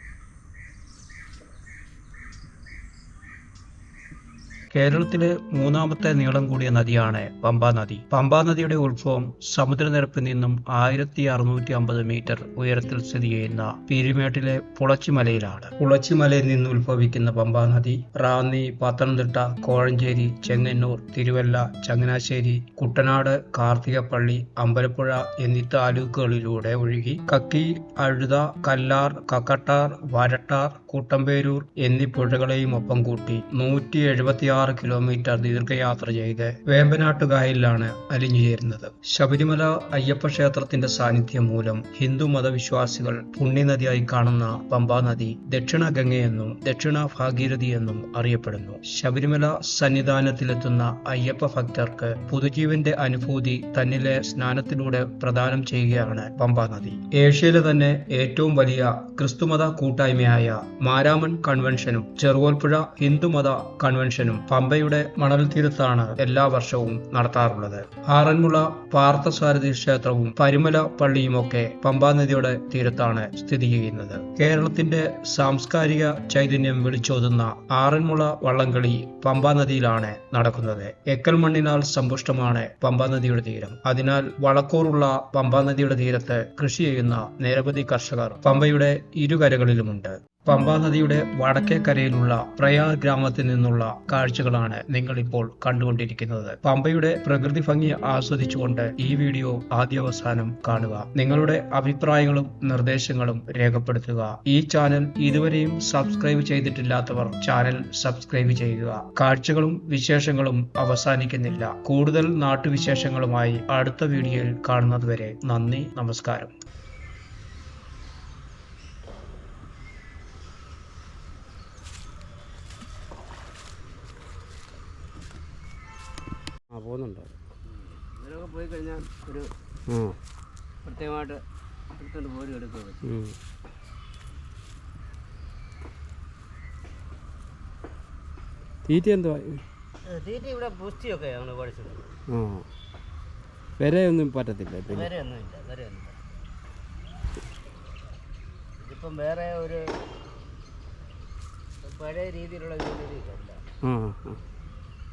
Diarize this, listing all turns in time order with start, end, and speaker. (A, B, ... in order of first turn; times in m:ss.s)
0:04.7-1:56.5 A
2:06.7-2:07.4 B
2:07.7-2:09.5 C
2:09.9-2:10.2 B
2:10.8-2:11.4 C
2:12.0-2:13.0 C
2:13.0-2:13.4 B
2:18.8-2:19.6 B
2:20.1-2:22.1 C
2:22.3-2:22.6 B
2:23.8-2:25.1 B
2:24.9-2:26.2 C
2:28.8-2:29.8 C
2:31.8-2:33.6 C
2:33.8-2:34.4 B